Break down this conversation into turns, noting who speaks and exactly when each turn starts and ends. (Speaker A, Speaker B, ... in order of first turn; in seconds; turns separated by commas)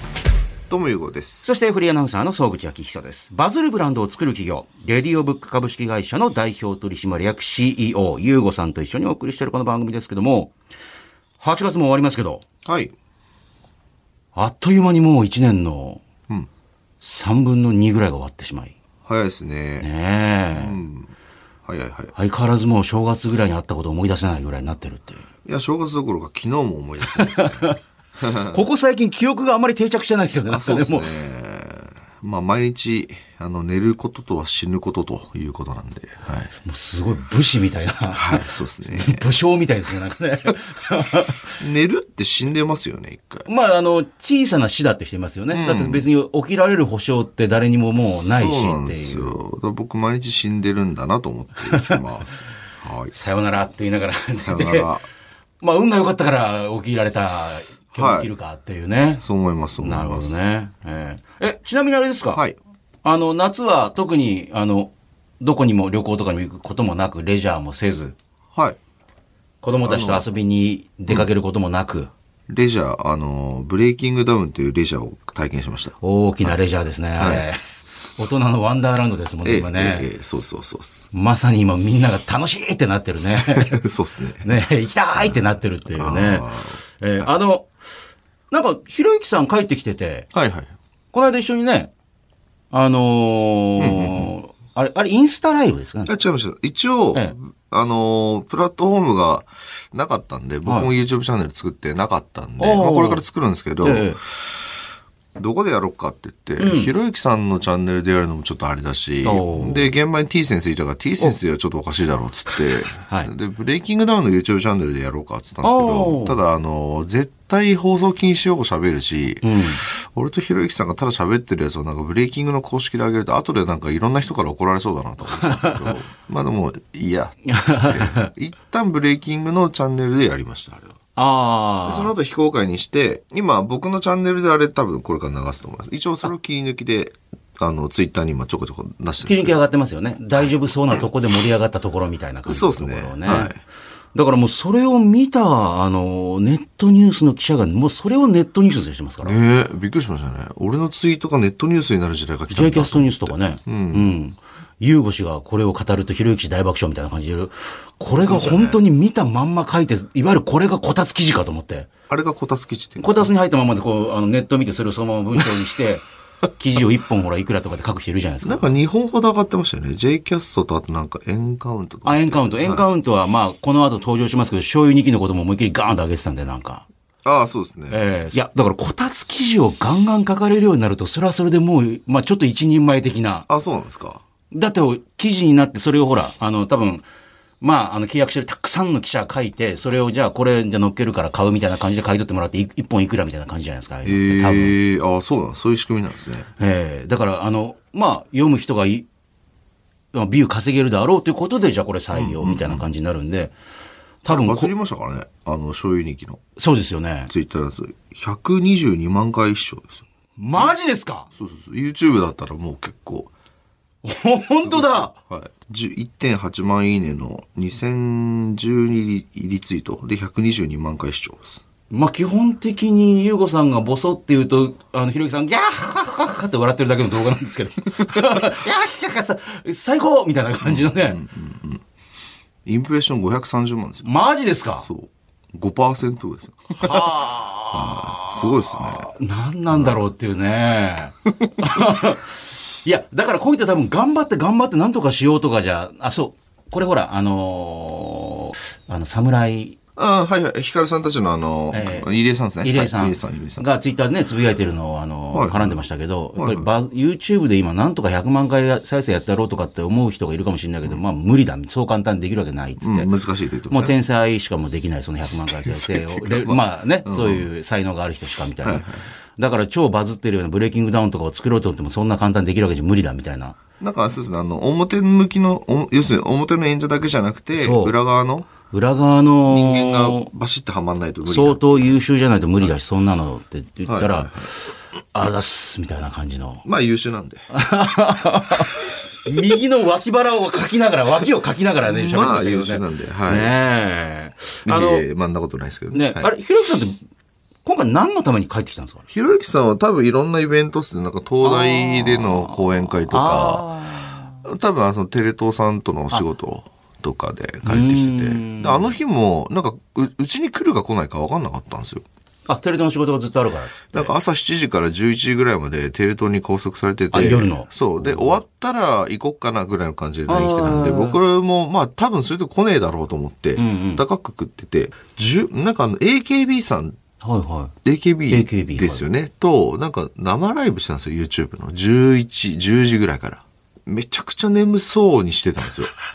Speaker A: 0.7-1.6, Speaker B: 1.4-10.5, Speaker B: 11.4-12.4, Speaker A: 12.7-12.9, Speaker B: 14.3-16.0, Speaker B: 17.0-18.7, Speaker A: 19.1-19.9, Speaker B: 19.8-20.8, Speaker A: 20.5-21.1, Speaker A: 21.7-22.1, Speaker B: 22.1-25.2, Speaker A: 25.5-28.6, Speaker B: 27.0-27.8, Speaker B: 28.5-31.1, Speaker A: 30.5-36.5, Speaker B: 36.5-41.4, Speaker A: 38.1-39.2, Speaker A: 41.6-43.5, Speaker B: 43.5-49.4, Speaker A: 45.5-46.0, Speaker A: 48.3-53.1, Speaker B: 51.6-52.0, Speaker B: 53.1-54.9, Speaker A: 54.4-55.1, Speaker B: 55.6-59.2, Speaker A: 57.9-58.3, Speaker A: 59.2-60.4, Speaker B: 59.8-62.4, Speaker B: 63.0-68.2, Speaker B: 69.6-72.1, Speaker A: 69.8-70.2, Speaker A: 72.5-76.0, Speaker B: 76.0-77.6, Speaker A: 77.2-77.5, Speaker B: 78.2-80.1, Speaker A: 79.4-81.1, Speaker B: 81.1-83.8, Speaker A: 83.4-84.6, Speaker B: 84.4-86.5, Speaker A: 85.9-87.3, Speaker B: 87.0-87.7, Speaker B: 88.5-90.3, Speaker A: 90.3-90.7, Speaker B: 91.1-91.9, Speaker B: 92.7-96.2, Speaker A: 93.8-94.3, Speaker A: 96.1-104.7, Speaker B: 102.6-103.2, Speaker B: 103.8-104.2, Speaker A: 105.4-131.0, Speaker B: 106.6-106.9, Speaker B: 109.2-109.9, Speaker B: 112.9-113.3, Speaker B: 115.6-116.4, Speaker B: 119.4-119.8, Speaker B: 125.4-125.9, Speaker B: 127.5-128.3, Speaker B: 131.2-132.1, Speaker A: 131.8-139.6, Speaker B: 139.2-143.5, Speaker A: 142.5-143.6, Speaker B: 144.2-149.4, Speaker A: 149.2-154.1, Speaker B: 152.5-161.9, Speaker A: 158.3-158.8, Speaker A: 162.1-163.3, Speaker B: 163.0-166.0, Speaker B: 166.6-168.7, Speaker A: 168.4-172.9, Speaker B: 172.1-176.8, Speaker A: 177.2-178.0, Speaker B: 177.9-183.5, Speaker A: 183.5-184.2, Speaker B: 184.5-187.1, Speaker B: 187.6-194.8, Speaker A: 194.1-196.5, Speaker B: 196.6-199.1, Speaker B: 200.1-203.5, Speaker A: 202.1-202.8, Speaker B: 204.2-204.7, Speaker A: 204.3-206.4, Speaker B: 206.6-207.3, Speaker A: 207.3-210.0, Speaker B: 210.4-211.3, Speaker A: 211.3-213.3, Speaker B: 214.0-215.1, Speaker A: 214.5-221.6, Speaker B: 221.9-231.2, Speaker A: 230.7-231.8, Speaker A: 232.7-234.1, Speaker B: 234.0-234.9, Speaker A: 234.8-239.1, Speaker B: 236.8-249.8, Speaker A: 250.0-253.7, Speaker B: 251.7-252.1, Speaker B: 252.6-263.1, Speaker A: 255.3-255.8, Speaker A: 256.4-256.7, Speaker A: 262.8-263.9, Speaker B: 263.7-268.9, Speaker A: 265.5-267.5, Speaker A: 268.6-269.0, Speaker B: 269.4-273.6, Speaker A: 273.8-278.5, Speaker B: 277.6-277.9, Speaker B: 278.7-280.3, Speaker A: 279.5-282.0, Speaker B: 281.3-284.6, Speaker A: 283.9-284.5, Speaker B: 285.1-286.6, Speaker A: 286.6-287.5, Speaker B: 287.5-295.1, Speaker A: 291.8-293.6, Speaker A: 294.7-296.3, Speaker B: 295.9-297.0, Speaker B: 297.6-299.1, Speaker A: 299.1-303.7, Speaker B: 301.4-304.4, Speaker A: 304.4-312.0, Speaker B: 307.6-308.9, Speaker B: 312.5-314.1, Speaker A: 313.9-327.0, Speaker B: 317.1-318.4, Speaker B: 320.3-321.2, Speaker B: 323.6-324.0, Speaker B: 327.2-327.7, Speaker A: 327.9-335.9, Speaker B: 328.3-329.1